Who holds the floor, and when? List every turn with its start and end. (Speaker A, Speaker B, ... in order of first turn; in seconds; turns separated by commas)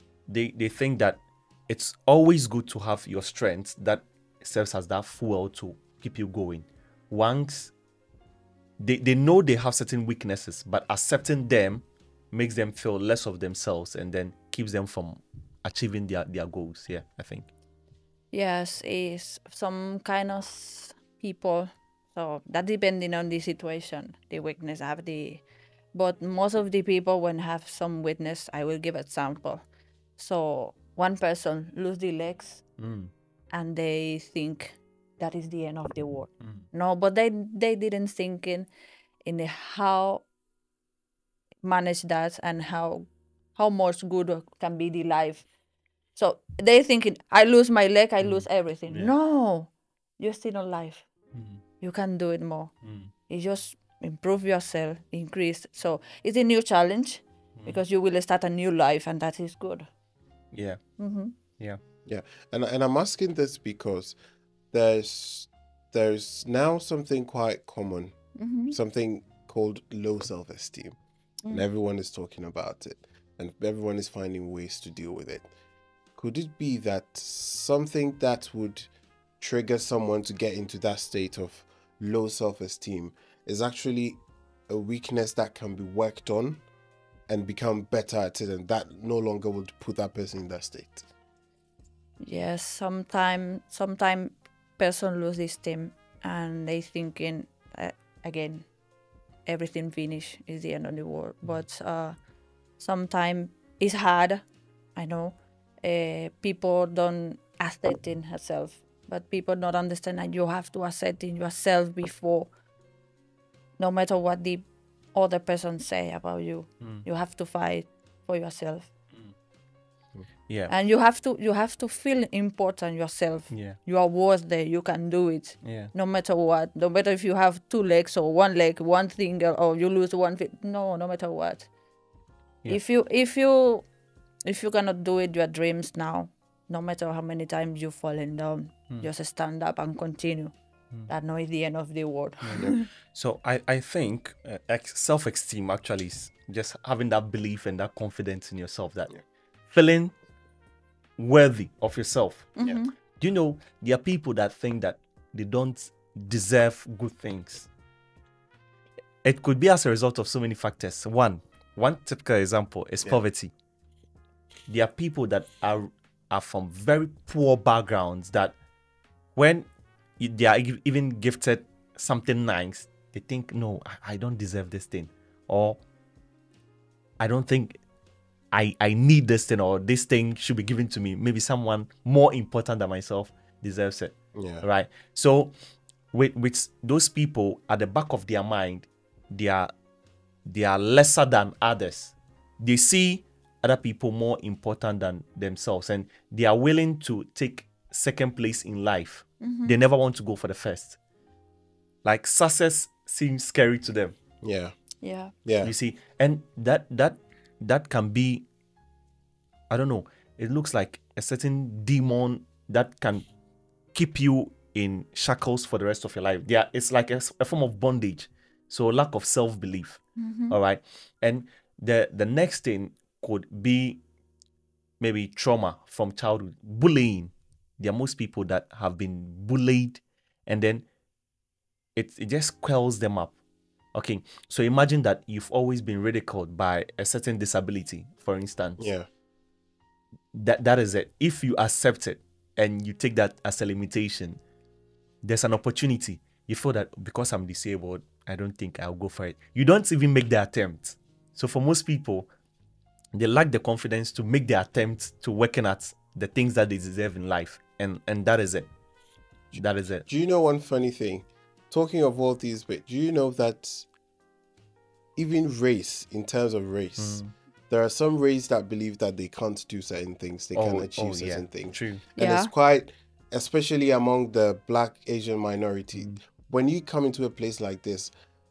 Speaker A: 0.3-7.7, Speaker A: 8.8-17.5, Speaker B: 18.3-25.4, Speaker B: 25.9-29.6, Speaker B: 30.2-32.6, Speaker A: 32.8-33.1, Speaker B: 33.5-38.7, Speaker A: 36.4-36.6, Speaker B: 39.2-40.2, Speaker B: 41.6-45.4, Speaker B: 46.1-51.0, Speaker A: 48.2-49.1, Speaker A: 51.3-51.6, Speaker B: 51.8-52.7, Speaker A: 52.8-53.1, Speaker B: 53.3-59.9, Speaker A: 60.5-60.8, Speaker B: 61.0-61.3, Speaker C: 62.1-64.2, Speaker C: 64.7-68.1, Speaker B: 68.3-68.8, Speaker C: 68.7-70.9, Speaker C: 71.5-75.5, Speaker C: 76.2-78.9, Speaker C: 79.4-86.6, Speaker C: 87.3-91.0, Speaker B: 92.2-98.7, Speaker B: 99.5-102.2, Speaker B: 102.8-104.4, Speaker B: 105.0-112.5, Speaker B: 113.8-118.9, Speaker B: 120.7-131.7, Speaker A: 123.5-123.8, Speaker A: 125.6-125.9, Speaker B: 132.7-133.8, Speaker B: 134.4-140.5, Speaker B: 141.1-142.8, Speaker A: 142.4-149.1, Speaker A: 149.7-150.1, Speaker A: 151.2-152.6, Speaker B: 152.6-152.9, Speaker A: 153.2-157.7, Speaker A: 159.2-163.5, Speaker A: 164.7-168.5, Speaker A: 169.3-169.7, Speaker A: 170.2-175.8, Speaker A: 177.2-177.8, Speaker A: 178.5-185.5, Speaker C: 184.3-184.6, Speaker A: 186.1-189.7, Speaker A: 190.4-201.0, Speaker B: 199.4-199.8, Speaker A: 202.0-204.2, Speaker C: 204.4-204.7, Speaker B: 205.0-205.3, Speaker C: 205.4-205.7, Speaker A: 205.6-208.4, Speaker A: 209.7-213.3, Speaker A: 213.9-224.0, Speaker B: 220.2-220.6, Speaker A: 225.0-230.8, Speaker A: 231.9-233.3, Speaker A: 233.9-238.9, Speaker C: 238.8-239.1, Speaker A: 240.3-244.4, Speaker A: 245.2-252.3, Speaker A: 253.1-258.7, Speaker C: 259.5-263.9, Speaker A: 259.5-260.1, Speaker C: 265.1-278.1, Speaker A: 267.0-267.3, Speaker A: 270.5-272.1, Speaker B: 272.1-272.5